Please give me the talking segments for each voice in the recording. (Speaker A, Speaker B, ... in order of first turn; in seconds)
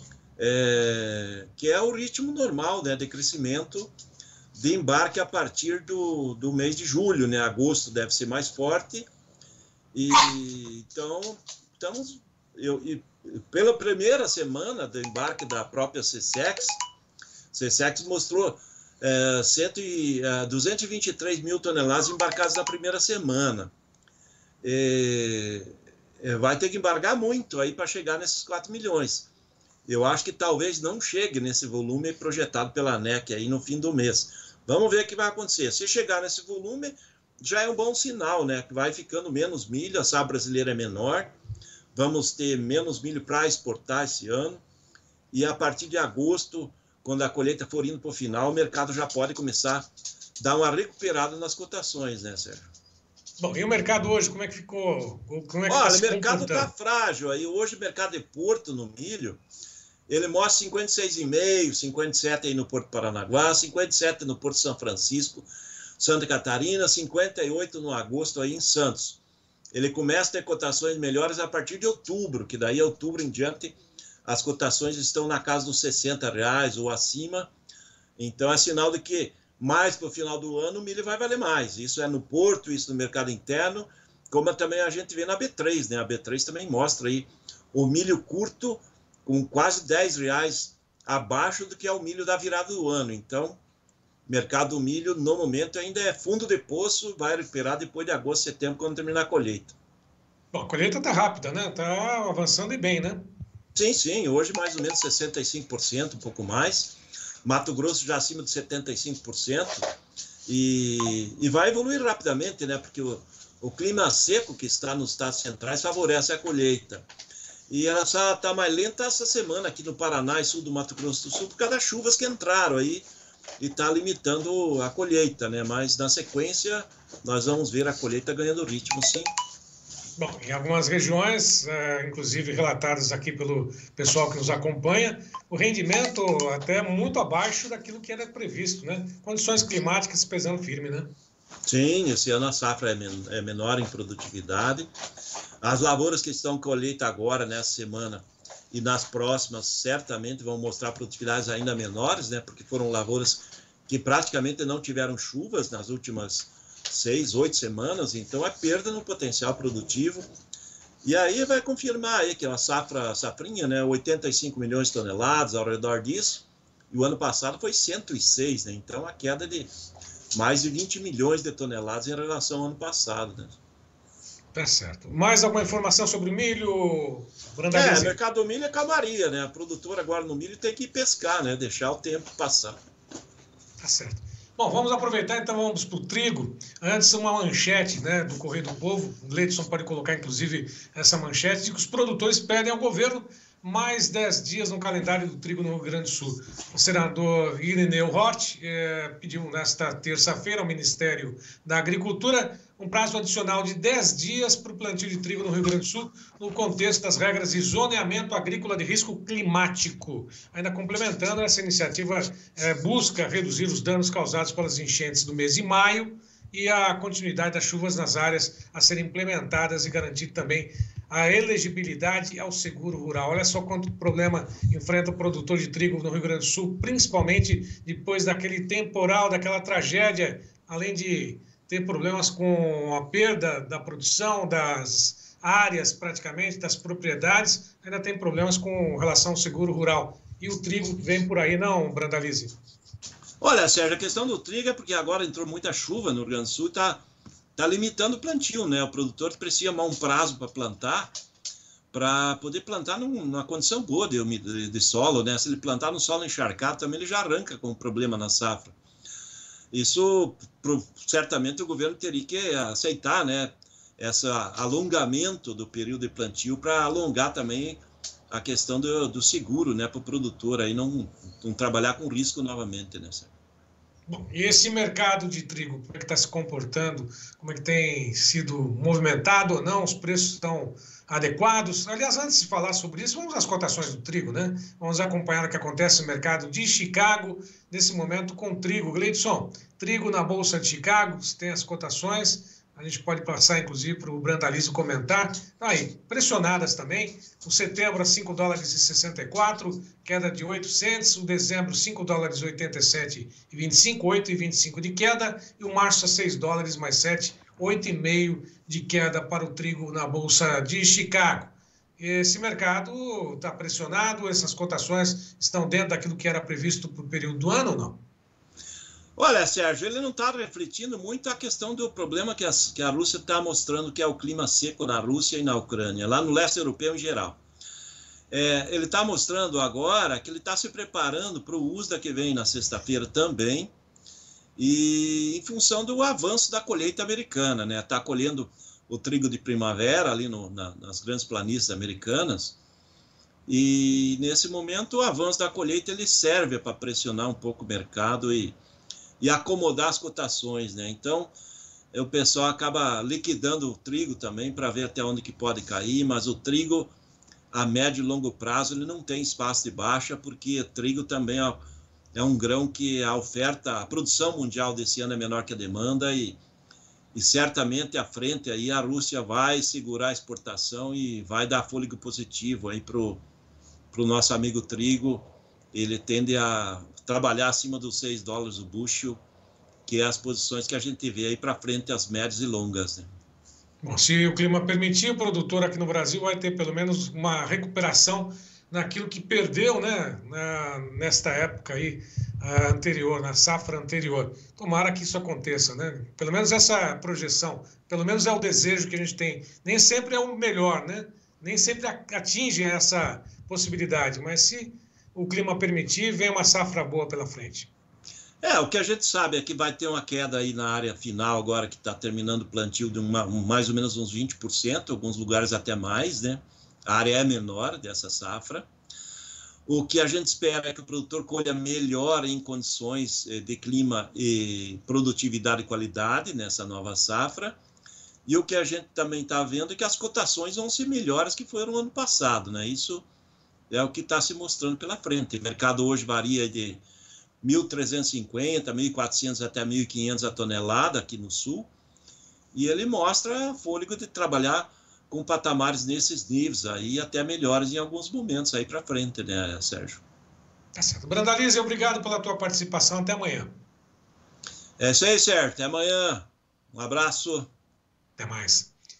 Speaker A: 0.4-3.9, 4.5-9.1, 9.9-16.8, 17.5-23.7, 24.6-29.3, 29.9-41.3, 41.9-44.6, 45.3-49.9, 50.4-52.7, 55.7-59.4, 60.1-65.5, 66.0-69.2, 69.7-77.5, 78.2-93.6, 94.3-99.7, 103.7-109.9, 110.5-117.0, 117.7-123.0, 123.6-129.3, 141.7-144.9, 145.6-160.2, 161.0-169.7, 170.3-173.6, 177.7-182.8, 243.4-247.0, 247.6-251.1, 251.9-258.7, 259.7-273.3, 319.1-327.4, 328.3-333.7, 334.6-342.6, 343.5-348.5, 349.2-351.3, 351.9-356.9, 357.5-366.4, 367.1-373.2, 373.9-379.2, 379.9-383.1, 408.4-418.7, 419.7-427.6, 428.2-433.1, 433.7-436.8, 437.4-441.7, 442.5-450.0, 454.8-457.5
Speaker B: 53.4-56.7, 100.5-103.2, 130.2-141.1, 174.5-178.1, 183.8-242.5, 274.1-318.0, 383.8-407.7, 450.7-453.5, 458.2-458.7